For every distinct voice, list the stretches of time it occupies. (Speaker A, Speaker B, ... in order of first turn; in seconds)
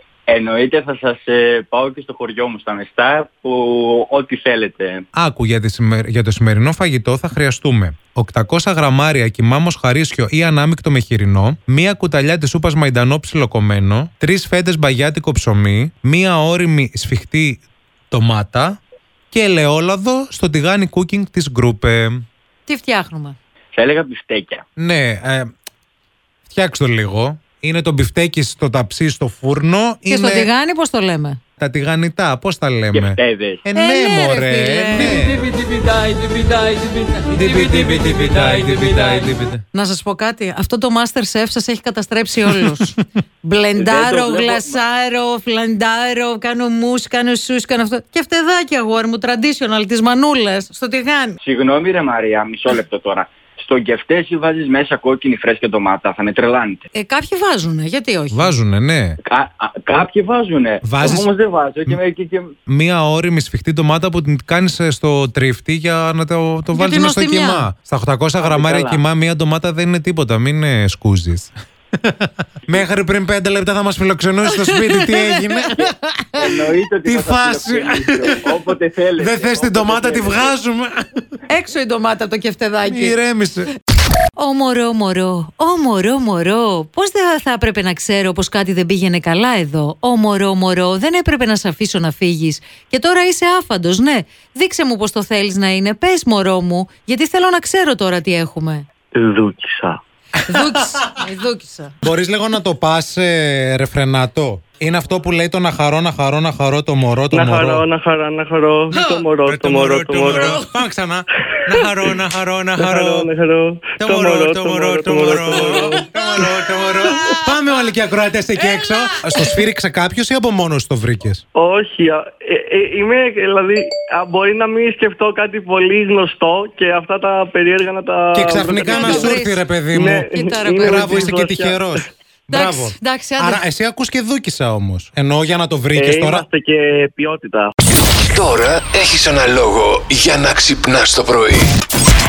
Speaker A: 0.3-5.0, 23.7-24.6, 32.9-33.6, 43.8-44.8, 51.4-56.8, 59.3-62.5, 68.4-69.0, 76.4-80.5
Speaker B: 5.2-18.8, 19.3-22.2, 24.8-25.5, 26.5-30.5, 31.6-35.5, 37.2-39.6, 58.3-59.2, 60.8-61.3, 62.7-76.5, 77.0-78.4, 79.2-81.0, 82.8-83.7, 102.0-107.9, 108.9-113.3, 114.0-121.4, 128.3-136.4
Speaker C: 22.7-23.4, 30.1-31.4, 33.8-35.3, 39.7-51.4, 56.9-58.6, 66.7-67.7, 74.5-75.9, 81.5-83.2, 84.4-98.8, 100.5-102.0, 128.8-129.6, 130.3-131.3, 132.5-133.6
Speaker D: 99.2-100.0, 107.3-110.7, 112.8-116.4, 121.6-129.3, 129.9-131.9, 135.9-137.7
Speaker E: 138.2-141.7